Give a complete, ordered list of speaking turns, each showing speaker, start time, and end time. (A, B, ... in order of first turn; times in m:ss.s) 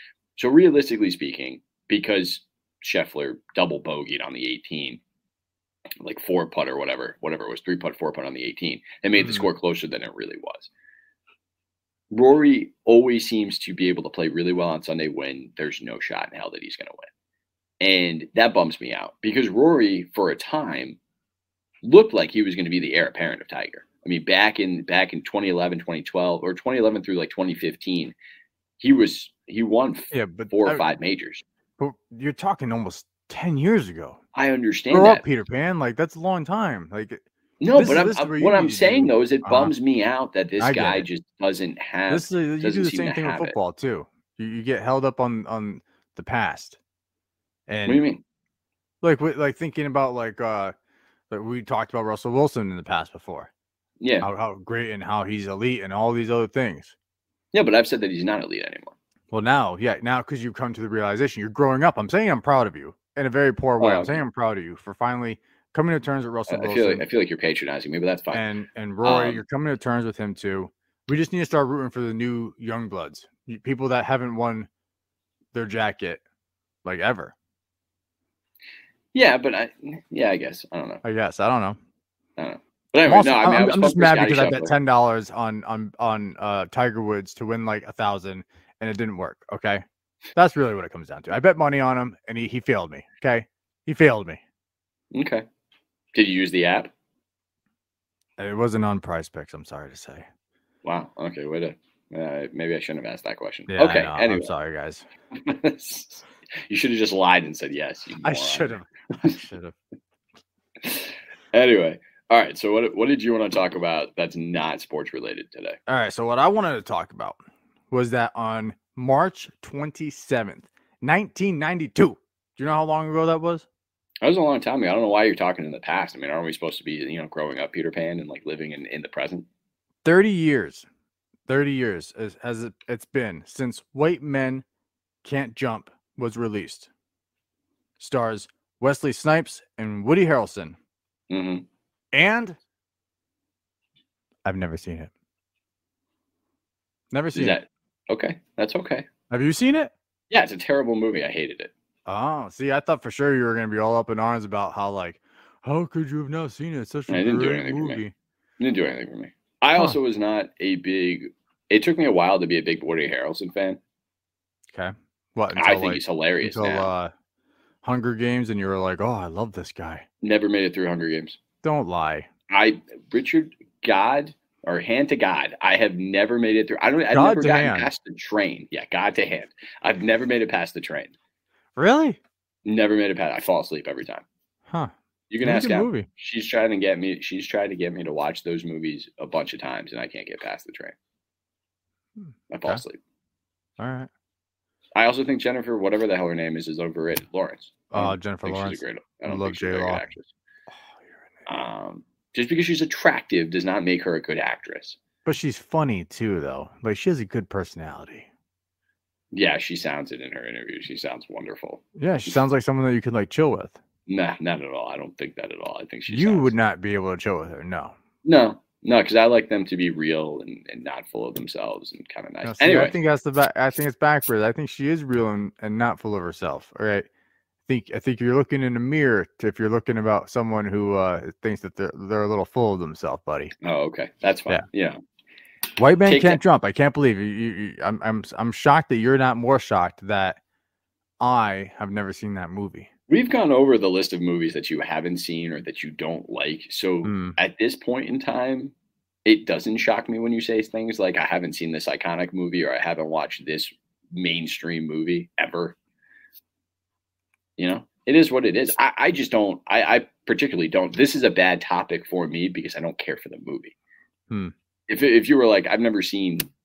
0:00.4-0:05.0 A
0:06.0-0:10.7 A
0:09.2-0:09.5 B
0:12.1-0:17.1 A
0:17.8-0:21.0 A
0:21.8-0:28.1 A
0:28.8-0:31.4 A
0:30.1-0:30.8 B
0:31.8-0:34.2 B
0:34.3-0:35.2 A
0:34.9-0:37.2 B
0:37.6-0:43.6 A
0:37.7-0:39.7 B
0:40.6-0:41.0 B
0:42.1-0:46.8 B
0:47.7-0:48.0 B
0:47.8-0:48.2 A
0:49.0-0:50.7 B
0:51.3-0:53.5 B
0:54.0-0:54.3 A
0:54.2-0:56.9 B
0:57.5-0:58.9 A
0:59.3-1:07.0 B
1:03.8-1:04.2 A
1:06.5-1:08.4 A
1:08.3-1:14.7 B
1:09.0-1:09.4 A
1:15.5-1:16.2 B
1:16.8-1:17.3 B
1:19.1-1:21.0 A
1:21.0-1:21.8 B
1:22.4-1:24.7 A
1:23.0-1:29.8 B
1:30.3-1:34.4 B
1:35.1-1:35.4 A
1:36.1-1:36.9 A
1:38.4-1:40.3 B
1:40.8-1:44.5 A
1:43.7-1:45.1 B
1:45.3-1:48.7 A
1:48.2-1:49.8 B
1:50.8-1:55.8 A
1:55.9-1:57.4 B
1:57.9-2:03.6 B
2:04.2-2:09.5 A
2:10.0-2:10.8 B
2:11.5-2:14.6 B
2:15.2-2:16.9 B
2:18.0-2:20.8 B
2:21.3-2:21.6 A
2:22.1-2:22.6 B
2:24.4-2:25.1 B
2:27.1-2:27.6 B
2:27.3-2:29.1 A
2:29.3-2:29.9 B
2:30.3-2:31.7 A
2:32.1-2:38.1 B
2:37.1-2:38.0 A
2:38.6-2:43.8 A
2:44.7-2:47.1 B
2:45.6-2:46.9 A
2:47.8-2:50.0 B
2:50.2-2:51.4 A
2:51.6-2:52.3 B
2:52.5-3:01.1 A
2:57.1-2:57.9 B
3:01.8-3:02.2 B
3:02.6-3:04.2 A
3:04.7-3:06.1 B
3:05.3-3:10.9 A
3:12.2-3:12.8 B
3:12.5-3:13.0 A
3:13.8-3:14.1 B
3:14.9-3:20.3 A
3:17.9-3:20.0 B
3:21.5-3:25.0 A
3:25.2-3:28.3 B
3:29.3-3:31.8 A
3:32.0-3:33.8 B
3:34.1-3:36.5 A
3:36.1-3:37.9 B
3:38.2-3:43.0 A
3:42.4-3:47.1 B
3:47.7-3:53.5 B
3:53.6-3:55.0 A
3:55.8-4:00.4 B
3:56.0-3:56.4 A
4:01.2-4:02.9 B
4:03.1-4:08.7 A
4:07.0-4:07.4 B
4:09.2-4:15.8 A
4:17.6-4:23.7 A
4:24.9-4:26.5 A